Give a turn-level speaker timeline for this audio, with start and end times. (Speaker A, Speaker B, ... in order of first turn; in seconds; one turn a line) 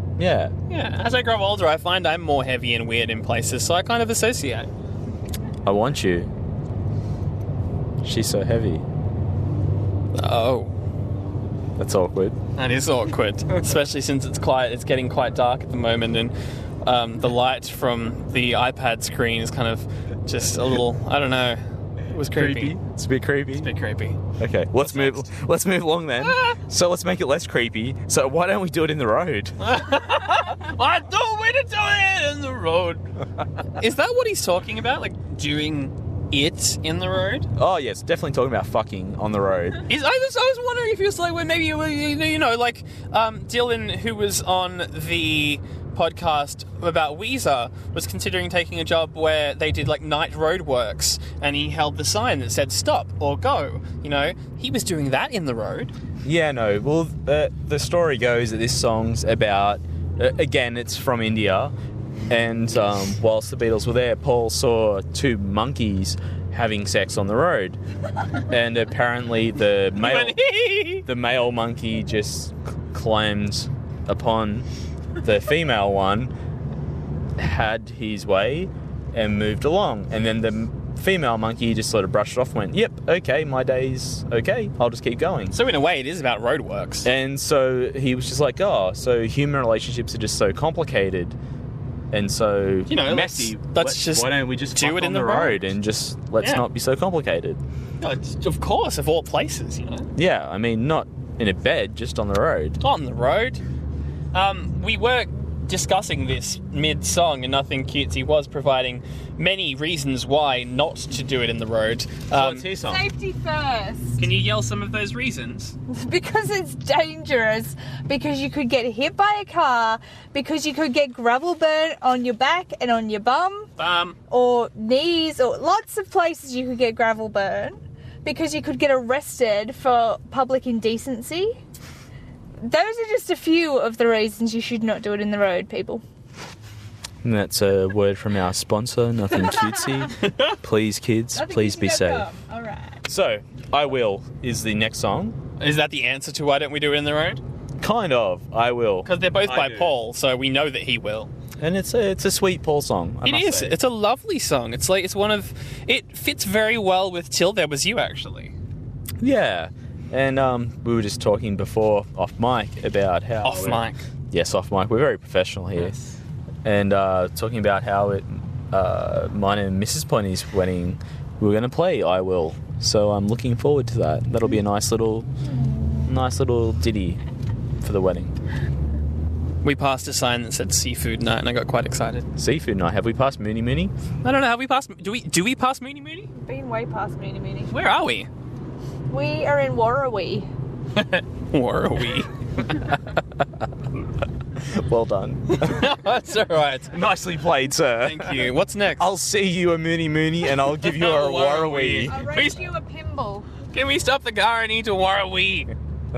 Speaker A: 0.2-0.5
Speaker B: 0.7-4.7
Speaker A: 5.7-6.3
Speaker A: 8.0-8.9
Speaker B: 10.1-10.7
Speaker A: 11.8-12.4
Speaker B: 12.6-22.8
Speaker A: 22.2-23.7
Speaker B: 23.6-24.2
Speaker A: 24.4-29.7
Speaker B: 24.8-25.3
Speaker B: 26.2-26.6
Speaker B: 29.6-33.1
Speaker B: 33.7-37.5
Speaker A: 37.6-39.8
Speaker B: 39.9-55.9
Speaker A: 56.2-61.7
Speaker A: 62.3-67.8
Speaker A: 68.5-70.4
Speaker B: 70.0-71.0
Speaker A: 71.0-74.7
Speaker A: 75.2-76.3
Speaker A: 77.4-85.6
Speaker B: 85.5-87.1
Speaker A: 87.0-91.4
Speaker A: 92.1-97.6
Speaker B: 92.9-95.6
Speaker B: 98.0-100.1
Speaker A: 100.2-102.8
Speaker B: 102.8-103.6
Speaker B: 104.3-112.7
Speaker A: 112.3-113.0
Speaker C: 112.8-114.2
Speaker B: 114.2-115.8
Speaker C: 115.9-123.7
Speaker B: 123.8-124.2
Speaker C: 124.3-131.6
Speaker C: 132.6-136.0
Speaker A: 137.2-142.3
Speaker C: 139.7-140.0
Speaker B: 140.2-140.6
Speaker C: 141.3-143.0
Speaker A: 143.1-145.4
Speaker B: 145.6-147.4
Speaker A: 147.8-149.9
Speaker B: 149.1-151.3
Speaker A: 151.6-153.8
Speaker B: 153.2-158.6
Speaker A: 159.2-165.9
Speaker B: 163.4-164.0
Speaker B: 165.8-166.1
Speaker A: 166.6-175.3
Speaker A: 176.0-177.2
Speaker A: 177.8-178.3
Speaker B: 179.6-182.3
Speaker A: 182.4-183.9
Speaker B: 184.2-186.3
Speaker C: 186.4-187.7
Speaker B: 187.7-188.3
Speaker C: 189.1-190.5
Speaker B: 191.0-192.9
Speaker A: 194.6-195.9
Speaker B: 195.5-197.0
Speaker A: 196.9-202.2
Speaker B: 198.0-199.1
Speaker B: 200.8-202.7
Speaker C: 202.1-203.5
Speaker B: 203.7-205.7